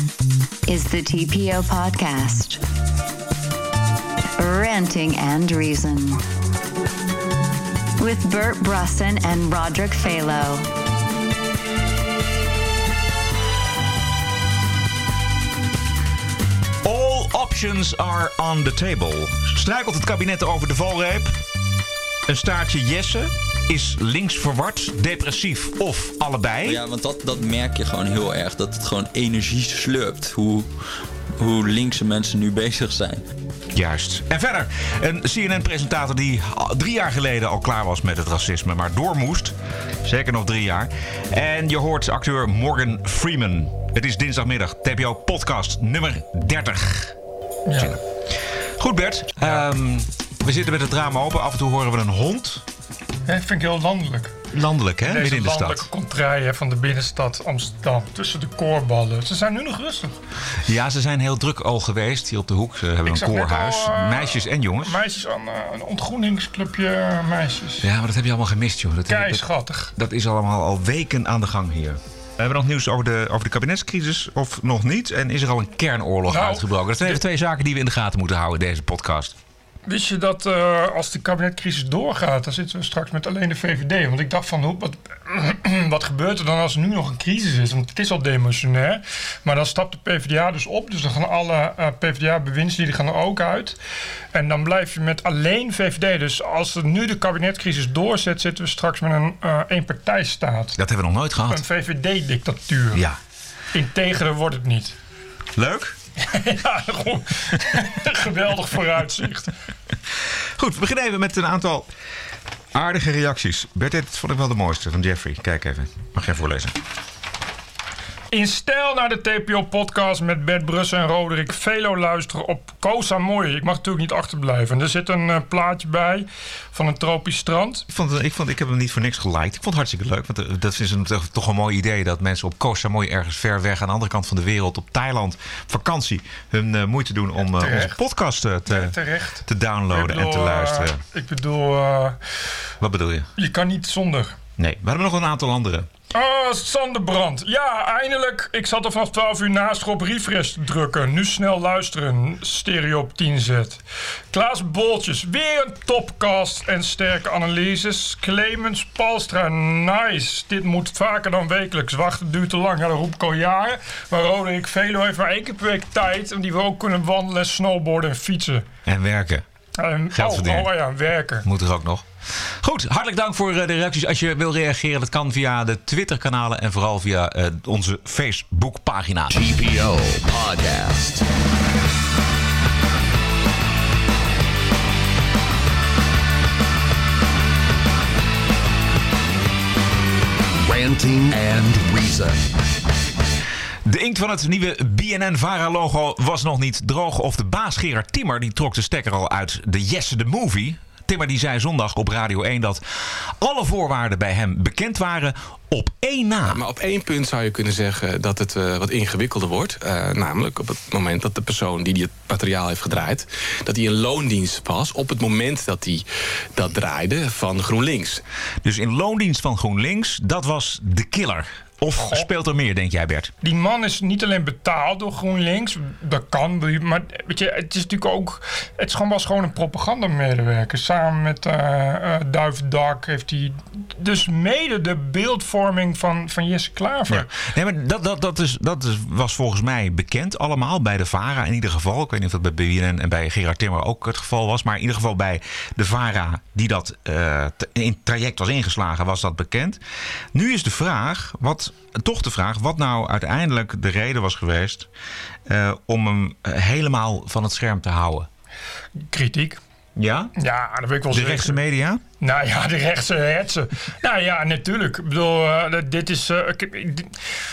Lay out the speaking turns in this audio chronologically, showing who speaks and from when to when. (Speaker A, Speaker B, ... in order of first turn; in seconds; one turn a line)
Speaker A: 0.7-2.6
Speaker A: 4.4-6.2
Speaker A: 8.0-10.6
Speaker B: 16.8-21.3
Speaker B: 22.3-26.8
Speaker C: 26.6-30.7
Speaker C: 31.4-33.2
Speaker B: 33.7-47.1
Speaker D: 47.6-48.0
Speaker B: 48.8-52.6
Speaker D: 53.3-54.3
Speaker B: 54.5-55.9
Speaker D: 55.0-60.2
Speaker B: 60.7-65.0
Speaker D: 63.0-67.8
Speaker B: 67.8-69.4
Speaker D: 69.1-69.9
Speaker B: 69.9-79.3
Speaker D: 76.3-77.2
Speaker D: 79.9-93.8
Speaker D: 94.3-100.8
Speaker B: 100.8-101.6
Speaker D: 101.5-103.0
Speaker D: 103.7-105.0
Speaker B: 105.5-106.0
Speaker D: 106.2-109.5
Speaker B: 110.6-111.9
Speaker B: 112.7-116.7
Speaker D: 118.3-127.8
Speaker B: 127.9-138.9
Speaker D: 137.5-138.0
Speaker D: 138.7-142.2
Speaker B: 139.4-141.0
Speaker B: 142.8-143.3
Speaker D: 143.4-144.4
Speaker B: 144.6-145.9
Speaker D: 146.1-153.8
Speaker D: 154.3-168.7
Speaker B: 168.8-169.4
Speaker D: 169.8-171.4
Speaker B: 170.1-170.7
Speaker B: 171.4-172.0
Speaker B: 172.6-179.3
Speaker E: 179.3-181.2
Speaker E: 190.6-192.5
Speaker B: 193.8-202.8
Speaker B: 203.4-206.6
Speaker F: 206.4-216.0
Speaker F: 216.5-218.2
Speaker B: 218.6-223.3
Speaker D: 222.0-222.3
Speaker D: 223.4-237.3
Speaker B: 237.1-249.8
Speaker B: 250.3-254.9
Speaker B: 255.5-258.3
Speaker D: 259.1-259.6
Speaker B: 259.9-260.3
Speaker D: 260.4-261.6
Speaker B: 261.1-262.0
Speaker D: 262.2-267.1